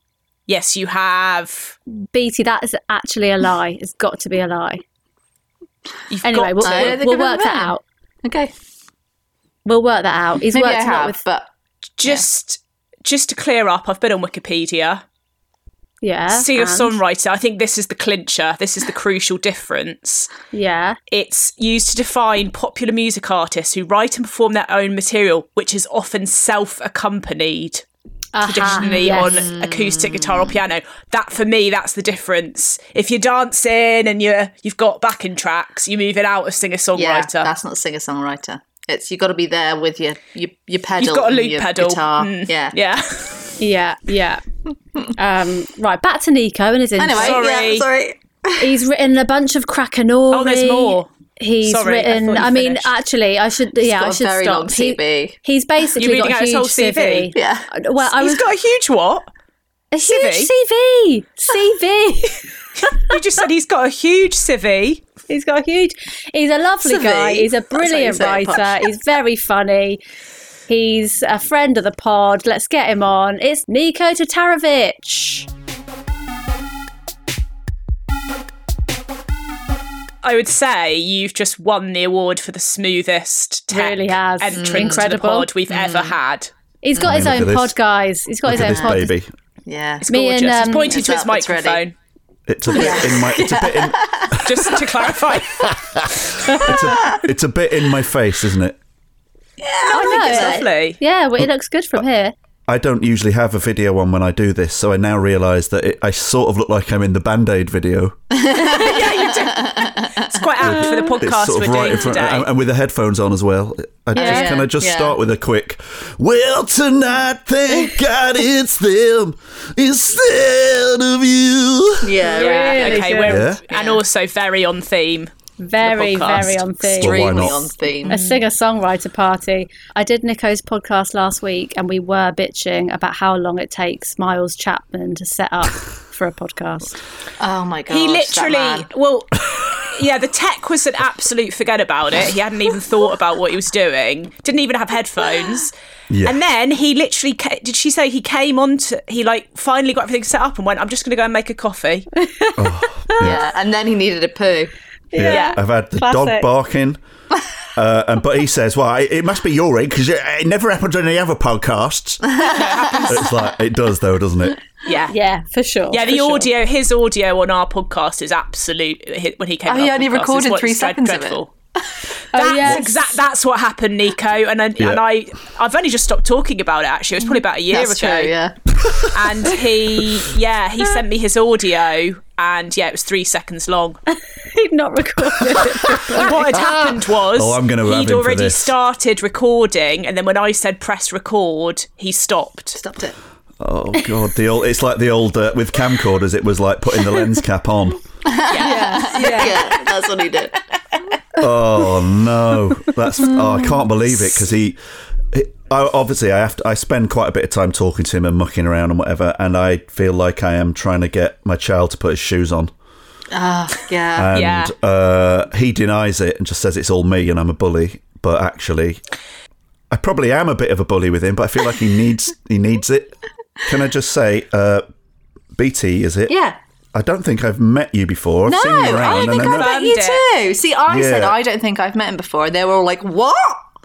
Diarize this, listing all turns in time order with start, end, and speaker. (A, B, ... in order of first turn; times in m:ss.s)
0:00.5-0:01.8 A
0:01.9-0:04.8 B
0:06.1-0:07.0 A
0:06.2-0:07.8 B
0:06.6-0:07.7 C
0:08.2-0:08.5 C
0:09.6-0:11.2 B
0:10.5-0:11.5 C
0:12.0-0:15.0 A
0:16.0-0:17.0 B
0:16.3-0:20.3 A
0:20.5-0:21.0 B
0:21.1-0:27.8 A
0:28.3-0:29.4 B
0:28.4-0:37.5 A
0:28.7-0:30.6 C
0:37.0-0:42.8 C
0:41.0-0:43.4 A
0:43.6-0:44.4 B
0:45.1-0:47.5 B
0:47.0-0:48.7 C
0:47.2-0:47.9 A
0:48.6-0:58.4 B
0:50.3-0:51.1 A
0:51.6-0:52.9 A
0:53.8-0:55.4 C
0:56.0-0:57.3 A
0:57.3-0:57.7 C
0:58.0-0:59.3 A
0:59.9-1:02.4 B
1:00.0-1:00.5 A
1:02.8-1:05.0 A
1:05.3-1:10.0 B
1:06.8-1:08.8 C
1:10.7-1:15.5 B
1:20.2-1:26.5 A
1:23.7-1:25.5 B
1:24.6-1:25.0 C
1:25.7-1:26.2 C
1:26.8-1:29.1 B
1:27.0-1:27.8 D
1:28.4-1:29.3 D
1:29.6-1:30.0 C
1:30.0-1:31.9 A
1:30.1-1:30.9 B
1:30.9-1:31.8 C
1:32.5-1:34.4 D
1:32.7-1:34.8 C
1:32.7-1:33.2 B
1:34.4-1:35.7 A
1:35.6-1:38.8 D
1:36.7-1:37.2 C
1:39.6-1:40.7 C
1:39.9-1:42.3 B
1:39.9-1:41.0 A
1:42.7-1:48.2 D
1:48.3-1:50.4 C
1:48.5-1:52.5 A
1:50.6-2:02.2 D
1:50.8-1:51.1 B
1:54.1-1:54.6 B
1:54.1-1:55.2 C
2:02.0-2:04.0 C
2:02.2-2:03.4 B
2:02.3-2:06.6 A
2:03.2-2:03.6 D
2:05.6-2:17.0 B
2:06.3-2:08.2 C
2:06.8-2:07.7 D
2:08.1-2:08.4 A
2:17.4-2:18.8 C
2:17.9-2:25.7 A
2:26.1-2:26.4 D
2:26.2-2:32.1 A
2:32.2-2:33.4 B
2:32.6-2:33.5 D
2:33.2-2:34.7 C
2:35.1-2:36.4 B
2:35.1-2:37.0 D
2:35.3-2:35.6 A
2:37.8-2:42.4 D
2:42.3-2:43.1 C
2:42.5-2:43.3 A
2:43.0-2:44.6 D
2:44.8-2:45.1 A
2:45.1-2:46.5 B
2:45.9-2:51.5 A
2:49.6-2:52.0 C
2:52.3-2:53.1 B
2:52.3-2:58.3 A
2:57.7-2:59.6 C
2:59.1-3:04.0 A
3:04.5-3:06.7 B
3:06.0-3:08.7 D
3:06.1-3:12.8 A
3:12.8-3:13.2 C
3:13.6-3:18.0 D
3:18.2-3:20.6 C
3:18.5-3:20.1 A
3:18.6-3:19.7 B
3:21.4-3:24.8 D
3:23.2-3:23.8 C
3:25.3-3:32.7 D
3:33.3-3:34.3 C
3:34.1-3:39.0 D
3:34.3-3:34.7 A
3:39.9-3:44.8 D
3:45.5-3:46.4 D
3:46.3-3:46.6 C
3:46.9-3:49.7 D
3:48.4-3:53.6 C
3:48.9-3:50.2 A
3:50.9-3:51.4 D